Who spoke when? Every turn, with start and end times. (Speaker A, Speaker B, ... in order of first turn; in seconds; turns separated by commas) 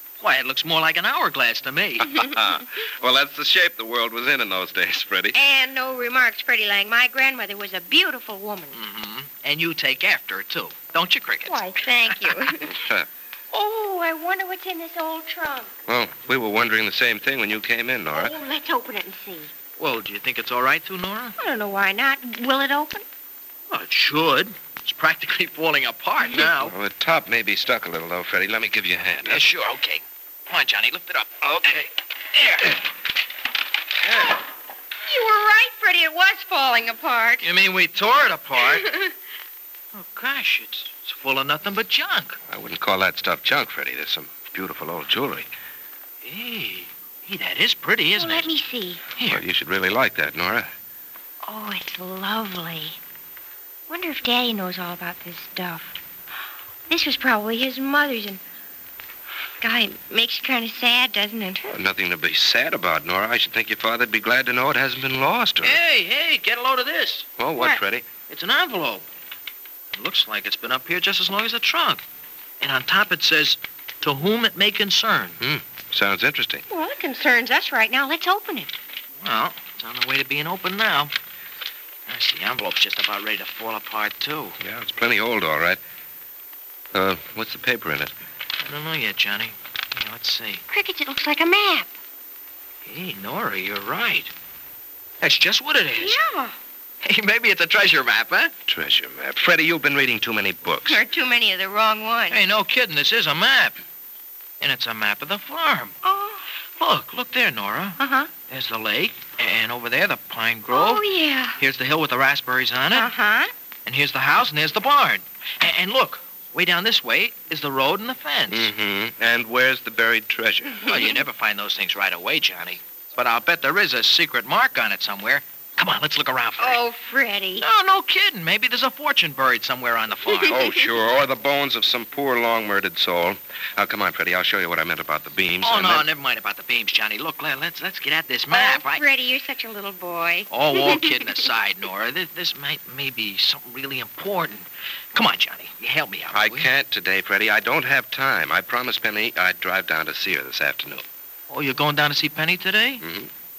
Speaker A: 0.2-2.1, Speaker B: 2.0-5.3, Speaker C: 5.3-8.8, Speaker A: 8.7-12.2, Speaker C: 11.4-12.8, Speaker B: 12.7-13.1, Speaker C: 13.5-15.7, Speaker B: 15.9-18.3, Speaker C: 18.1-19.5, Speaker A: 19.8-21.4, Speaker C: 21.4-23.0, Speaker A: 23.7-26.7, Speaker B: 26.5-29.5, Speaker A: 29.2-31.8, Speaker A: 32.3-32.7, Speaker C: 35.0-37.5, Speaker A: 37.4-38.9, Speaker A: 39.9-42.4, Speaker B: 42.5-45.5, Speaker A: 46.2-48.5, Speaker C: 48.1-49.0, Speaker A: 49.2-49.4, Speaker B: 49.2-50.7, Speaker C: 51.4-53.0, Speaker C: 53.9-56.0, Speaker C: 56.9-58.4, Speaker C: 59.6-61.6, Speaker B: 61.7-65.8, Speaker A: 65.6-67.3, Speaker B: 67.4-68.1, Speaker C: 67.5-67.8, Speaker A: 68.2-69.0, Speaker A: 69.9-72.0, Speaker A: 72.6-75.4, Speaker B: 75.4-76.6, Speaker C: 76.7-78.7, Speaker A: 79.2-81.1, Speaker A: 82.1-84.6, Speaker B: 84.6-85.8, Speaker B: 86.9-88.1, Speaker A: 88.6-90.6, Speaker C: 90.7-91.9, Speaker A: 92.8-94.3, Speaker A: 95.2-96.2, Speaker C: 96.0-96.5, Speaker A: 97.0-98.5, Speaker B: 98.7-101.0, Speaker C: 100.8-102.4, Speaker A: 102.3-103.8, Speaker A: 104.6-105.9, Speaker C: 106.0-106.4, Speaker A: 106.8-111.0, Speaker C: 108.0-108.3, Speaker C: 110.7-111.5, Speaker A: 111.6-113.1, Speaker C: 112.9-113.5, Speaker A: 113.8-118.7, Speaker B: 118.5-120.9, Speaker A: 120.8-126.8, Speaker C: 126.6-127.6, Speaker A: 127.6-130.6, Speaker C: 130.3-130.7, Speaker B: 130.4-136.1, Speaker A: 135.6-139.0, Speaker C: 138.5-141.1, Speaker A: 140.5-146.7, Speaker B: 146.3-151.0, Speaker A: 151.5-153.0, Speaker B: 153.0-153.3